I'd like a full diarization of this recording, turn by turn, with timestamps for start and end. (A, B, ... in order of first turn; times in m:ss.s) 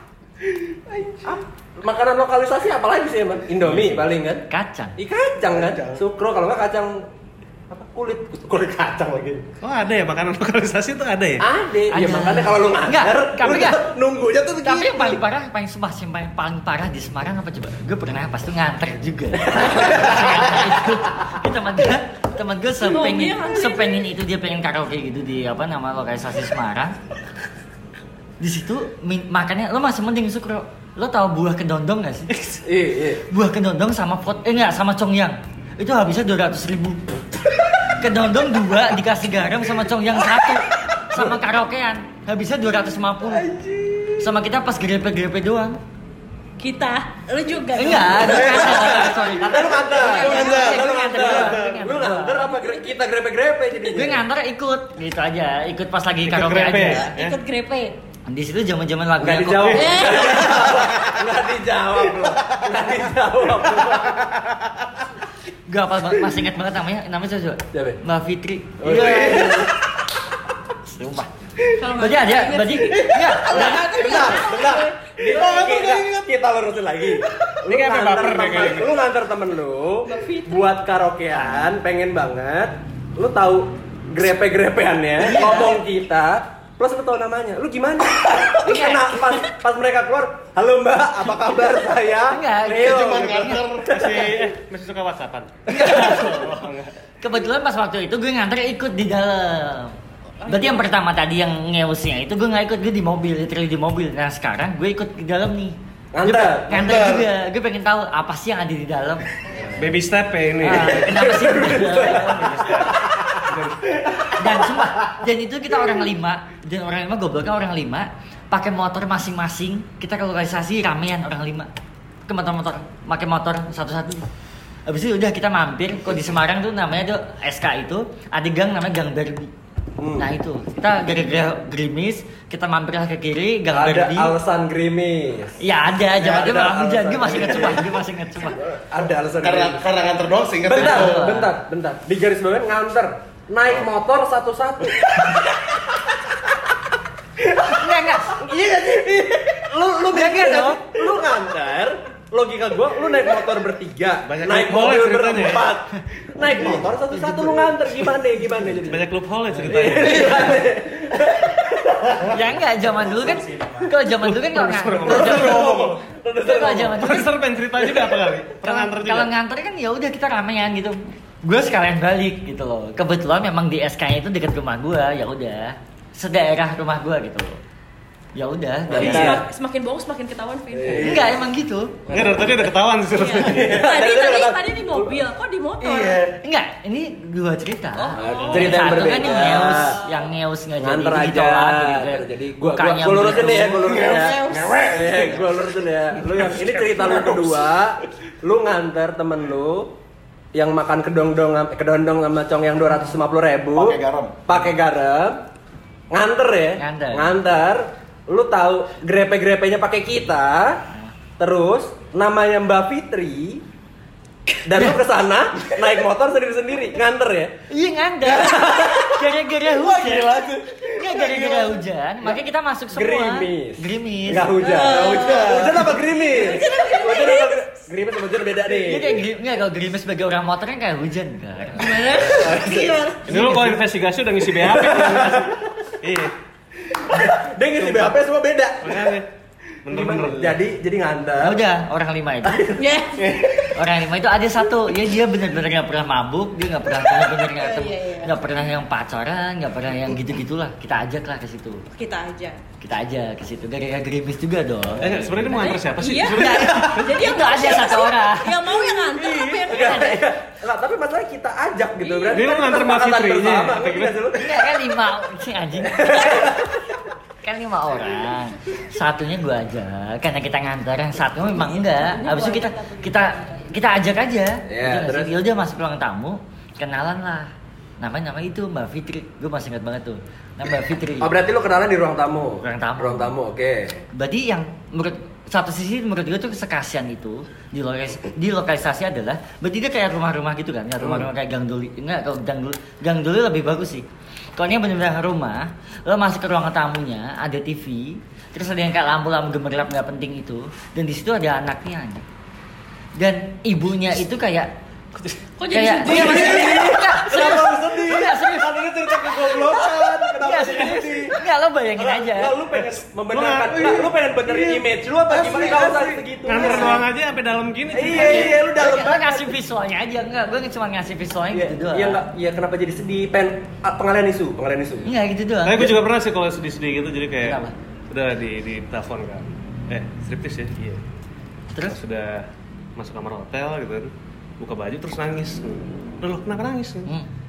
0:00.5-0:01.4 A
0:01.3-0:07.0 B
0:03.6-0:04.1 C
0:04.5-0:04.9 D
0:05.5-0:06.0 A
0:07.7-0:09.4 B
0:09.6-0:11.5 C
0:11.4-0:15.2 B
0:11.9-0:13.9 D
0:14.6-0:26.9 D
0:19.5-0:20.2 B
0:22.8-0:24.1 E
0:28.4-0:32.3 D
0:32.3-0:32.6 C
0:32.6-0:33.2 B
0:33.3-0:37.0 D
0:38.0-0:43.5 D
0:43.3-0:44.3 B
0:44.2-0:45.8 D
0:46.6-0:48.8 E
0:47.7-0:52.5 D
0:48.1-0:48.7 A
0:48.3-0:54.2 B
0:50.0-0:51.9 A
0:50.1-0:50.5 E
0:52.6-0:53.0 E
0:53.9-0:57.1 D
0:56.2-0:57.4 C
0:57.0-0:58.0 E
0:58.3-1:00.3 D
0:59.2-1:04.3 B
0:59.7-1:00.5 E
1:00.4-1:01.0 A
1:02.2-1:03.0 A
1:03.6-1:04.9 A
1:05.6-1:09.7 D
1:07.7-1:08.0 B
1:08.8-1:09.7 B
1:09.0-1:09.6 A
1:10.8-1:14.0 D
1:11.7-1:15.7 E
1:12.9-1:16.3 A
1:13.4-1:33.5 B
1:17.1-1:18.8 A
1:17.7-1:19.0 C
1:20.0-1:20.8 E
1:25.2-1:25.8 D
1:28.6-1:29.5 E
1:32.3-1:33.6 D
1:32.8-1:34.1 A
1:33.9-1:36.9 C
1:35.7-1:39.9 D
1:35.7-1:36.2 B
1:40.4-1:40.9 E
1:40.4-1:45.7 D
1:46.1-1:46.9 B
1:46.2-1:49.3 D
1:46.3-1:47.3 A
1:49.5-1:49.9 B
1:49.7-1:51.1 C
1:50.6-1:52.8 D
1:50.7-1:53.4 B
1:52.1-1:53.9 C
1:54.3-2:01.7 D
2:02.2-2:04.2 D
2:04.8-2:09.5 D
2:10.0-2:10.3 B
2:10.2-2:14.4 D
2:13.7-2:18.0 B
2:15.6-2:18.6 D
2:18.5-2:19.8 B
2:19.4-2:21.3 A
2:20.7-2:25.6 B
2:20.7-2:21.5 D
2:27.5-2:28.9 D
2:28.3-2:42.4 B
2:30.1-2:30.8 D
2:34.2-2:35.7 C
2:36.4-2:36.8 A
2:36.6-2:36.8 C
2:38.7-2:40.6 C
2:42.2-2:45.7 D
2:43.0-2:43.8 A
2:44.2-2:45.6 C
2:45.0-2:46.0 A
2:45.2-2:47.1 B
2:46.4-2:47.3 D
2:47.0-2:49.3 C
2:47.8-2:48.3 B
2:48.6-2:57.6 D
2:58.3-2:59.4 D
2:58.9-2:59.4 B
2:59.0-3:01.4 E
2:59.0-2:59.4 C
3:00.7-3:01.2 B
3:00.9-3:01.3 A
3:01.0-3:02.0 D
3:02.1-3:02.7 B
3:02.1-3:03.8 C
3:03.1-3:06.2 E
3:03.4-3:05.2 B
3:05.8-3:06.3 A
3:06.4-3:14.1 D
3:07.9-3:08.6 E
3:08.2-3:10.0 B
3:08.3-3:09.0 C
3:09.2-3:10.3 E
3:10.8-3:19.9 B
3:13.7-3:15.6 A
3:13.9-3:14.8 E
3:16.3-3:17.8 A
3:20.5-3:25.4 B
3:23.7-3:24.4 A
3:26.1-3:30.8 B
3:26.8-3:27.4 D
3:31.4-3:33.6 B
3:34.7-3:37.5 B
3:34.7-3:35.0 D
3:37.7-3:44.5 D
3:38.2-3:39.3 B
3:39.8-3:41.8 A
3:42.2-3:49.2 B
3:44.6-3:45.6 E
3:44.8-3:46.1 A
3:46.1-3:47.9 E
3:48.8-3:52.2 D
3:51.7-3:53.3 E
3:52.1-3:52.9 B
3:53.3-3:56.3 C
3:53.3-3:53.8 D
3:54.4-3:55.6 B
3:56.9-3:59.1 B
3:57.7-3:58.2 C
3:58.8-3:59.3 C
3:59.8-4:00.6 C
3:59.9-4:01.6 B
4:01.4-4:02.6 D
4:02.4-4:03.6 B
4:02.8-4:03.3 E
4:03.7-4:11.8 D
4:07.5-4:08.6 E
4:11.9-4:12.6 E
4:12.8-4:15.7 D
4:15.0-4:17.2 C
4:15.5-4:20.2 E
4:16.3-4:18.8 D
4:19.6-4:24.5 B
4:19.7-4:20.1 D
4:22.0-4:22.7 E
4:22.3-4:24.2 C
4:24.3-4:26.6 D
4:25.9-4:26.7 B
4:27.4-4:41.3 D
4:31.4-4:33.8 E
4:34.7-4:35.4 B
4:41.2-4:44.0 B
4:42.6-4:43.4 D
4:44.1-5:02.2 D
4:51.0-4:51.3 B
5:03.2-5:04.7 D
5:05.6-5:06.8 E
5:05.7-5:09.6 D
5:06.0-5:11.4 B
5:06.1-5:06.8 A
5:09.7-5:10.2 A
5:10.4-5:12.6 D
5:12.0-5:17.0 B
5:12.8-5:13.9 C
5:13.7-5:16.6 A
5:16.4-5:18.6 C
5:17.9-5:19.5 B
5:18.0-5:22.2 D
5:21.5-5:25.1 B
5:25.0-5:25.9 D
5:25.6-5:31.0 C
5:27.4-5:27.7 D
5:31.8-5:37.1 C